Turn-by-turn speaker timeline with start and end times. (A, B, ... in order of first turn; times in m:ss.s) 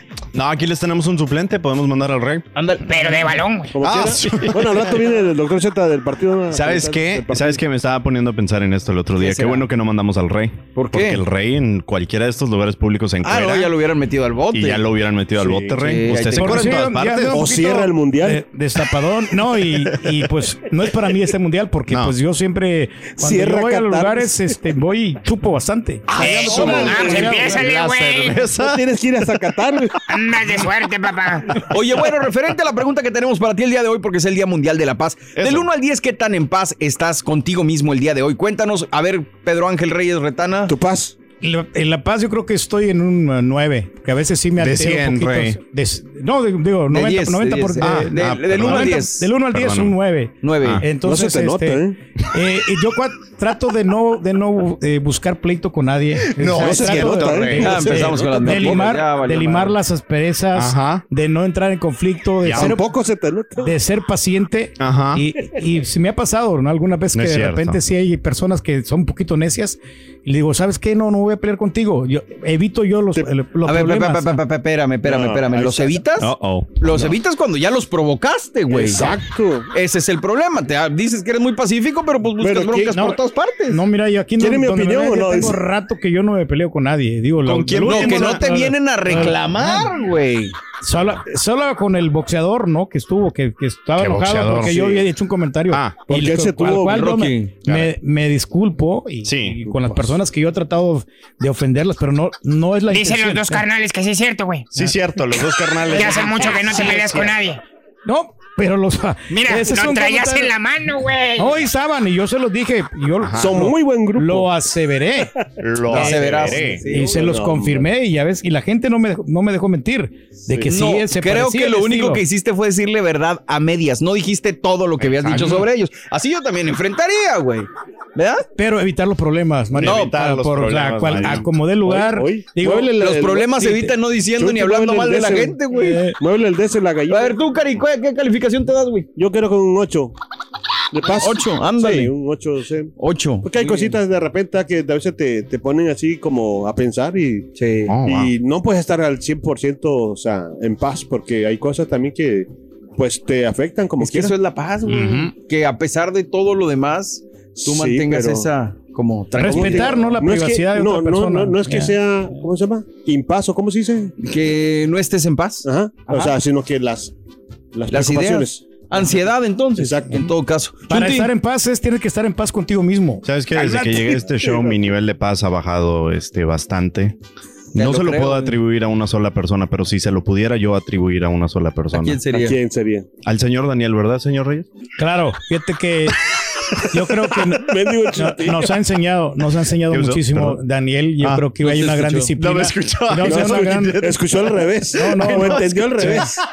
0:00.3-0:02.4 A
0:02.6-0:02.9 B
0:02.8-0:03.8 C
0:03.7-0:07.6 D
0:03.8-0:04.9 A
0:06.5-0:13.7 A
0:09.2-0:09.7 B
0:10.7-0:11.2 B
0:13.2-0:14.8 B
0:14.5-0:17.6 A
0:15.4-0:16.8 B
0:16.4-0:27.6 E
0:17.3-0:18.4 D
0:21.9-0:22.1 A
0:23.2-0:24.4 D
0:26.2-0:27.4 D
0:26.2-0:28.4 C
0:26.2-0:28.8 A
0:28.6-0:29.9 D
0:30.1-0:31.5 C
0:31.7-0:40.7 B
0:35.4-0:35.6 A
0:40.7-0:41.1 D
0:41.4-1:02.8 E
0:44.6-0:45.6 A
0:46.9-0:49.3 B
0:47.8-0:50.0 A
0:50.4-0:50.8 B
0:51.0-0:52.0 D
0:56.4-0:57.8 A
0:56.5-0:58.8 D
0:57.6-0:59.8 B
1:00.5-1:01.0 A
1:02.4-1:02.8 A
1:02.5-1:03.7 D
1:03.6-1:14.3 E
1:04.8-1:05.2 A
1:07.1-1:07.8 A
1:13.6-1:19.1 B
1:15.0-1:16.0 D
1:16.2-1:17.1 A
1:18.7-1:19.7 D
1:19.7-1:23.8 B
1:22.4-1:23.0 D
1:22.9-1:23.2 E
1:23.7-1:29.9 E
1:24.4-1:25.6 D
1:27.4-1:28.5 A
1:27.9-1:30.5 B
1:30.8-1:43.6 E
1:34.0-1:34.9 A
1:34.7-1:35.0 D
1:35.7-1:36.0 A
1:36.1-1:37.2 D
1:36.9-1:37.5 B
1:39.2-1:39.6 A
1:42.9-1:44.7 C
1:44.7-1:47.3 A
1:45.9-1:47.6 C
1:48.0-1:50.5 E
1:49.3-1:51.6 C
1:51.4-1:55.3 E
1:53.2-1:53.6 A
1:53.4-1:54.5 D
1:55.6-1:56.8 A
1:55.8-2:02.2 E
1:55.9-1:57.0 B
1:56.6-1:57.9 D
2:00.6-2:08.4 B
2:05.0-2:05.7 A
2:08.6-2:12.9 E
2:09.7-2:11.5 A
2:09.8-2:10.1 B
2:11.8-2:15.6 D
2:13.0-2:16.0 B
2:15.7-2:16.2 E
2:16.2-2:17.4 D
2:17.1-2:19.1 B
2:19.2-2:20.1 D
2:20.9-2:22.9 D
2:21.2-2:22.1 B
2:23.0-2:24.0 B
2:23.4-2:34.3 D
2:27.6-2:27.8 B
2:27.9-2:28.3 A
2:34.0-2:39.9 B
2:34.9-2:35.3 E
2:37.6-2:38.5 D
2:39.4-2:41.9 E
2:39.4-2:44.1 D
2:44.2-2:46.3 B
2:45.6-2:47.1 D
2:47.7-2:49.1 D
2:47.9-2:51.3 B
2:49.8-2:50.3 D
2:50.9-2:54.2 E
2:53.2-2:57.1 A
2:54.3-2:54.8 D
2:57.7-2:58.6 B
2:57.7-3:02.2 A
3:01.9-3:02.6 B
3:02.3-3:03.1 D
3:03.2-3:04.7 A
3:05.0-3:06.2 E
3:06.9-3:14.0 E
3:07.7-3:08.7 D
3:09.9-3:10.6 A
3:11.2-3:14.2 A
3:12.0-3:12.2 B
3:13.2-3:16.3 D
3:14.9-3:16.3 E
3:15.2-3:16.3 A